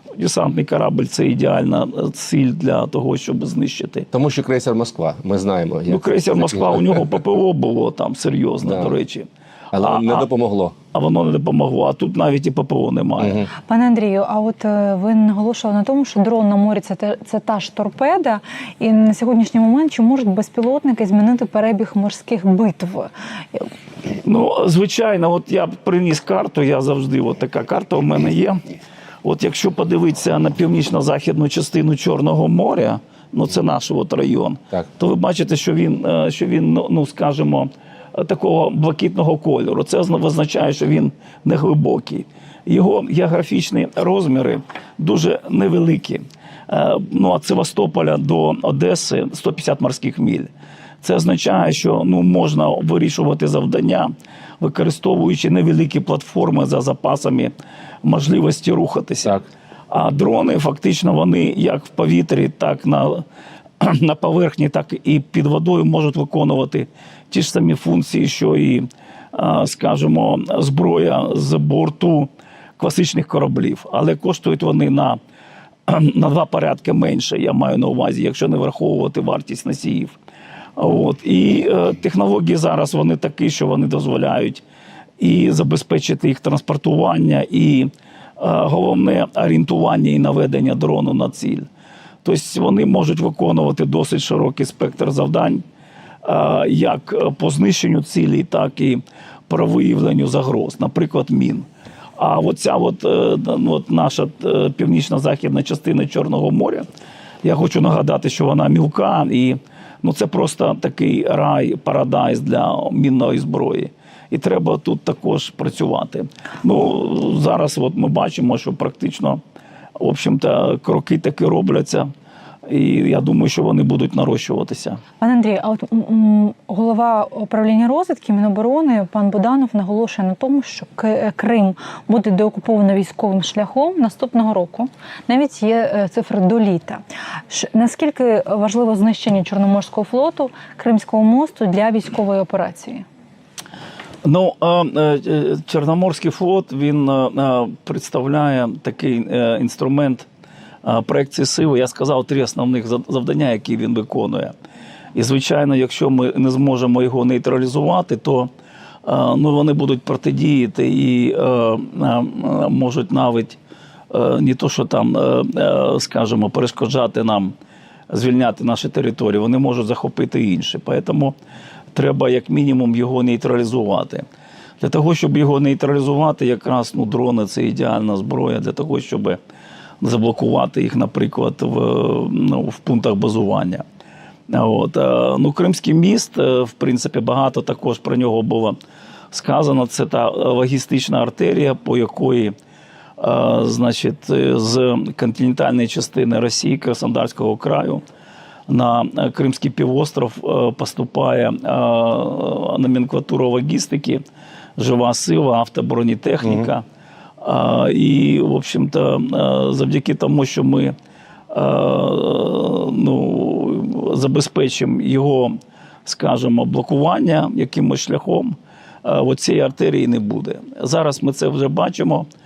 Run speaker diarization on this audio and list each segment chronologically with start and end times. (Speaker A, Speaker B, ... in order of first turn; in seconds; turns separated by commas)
Speaker A: 0.1-4.1, Speaker B: 4.1-7.0, Speaker A: 5.9-10.3, Speaker B: 8.6-8.9, Speaker B: 9.7-10.7, Speaker A: 10.9-13.5, Speaker B: 13.2-13.5, Speaker C: 13.6-23.7, Speaker A: 24.2-28.6, Speaker A: 29.2-50.5, Speaker A: 51.0-57.5, Speaker A: 58.0-59.4, Speaker A: 59.9-63.2, Speaker A: 63.8-75.2, Speaker A: 75.9-80.2, Speaker A: 80.8-84.6, Speaker A: 85.2-91.7, Speaker A: 92.2-95.6, Speaker A: 96.2-101.7, Speaker A: 102.2-106.8, Speaker A: 107.4-119.4, Speaker A: 120.0-122.1, Speaker A: 122.7-125.0, Speaker C: 125.2-143.0, Speaker A: 144.2-150.2, Speaker A: 150.8-154.5, Speaker A: 155.1-158.5, Speaker A: 159.0-163.6, Speaker A: 164.1-167.5, Speaker A: 168.1-171.3, Speaker A: 171.9-174.2, Speaker A: 174.8-179.4, Speaker A: 180.0-183.8, Speaker A: 184.5-188.8, Speaker A: 189.3-192.5, Speaker A: 193.2-198.0, Speaker A: 198.7-204.2, Speaker A: 204.8-206.8, Speaker B: 206.4-206.7, Speaker A: 207.4-210.9, Speaker A: 211.5-222.3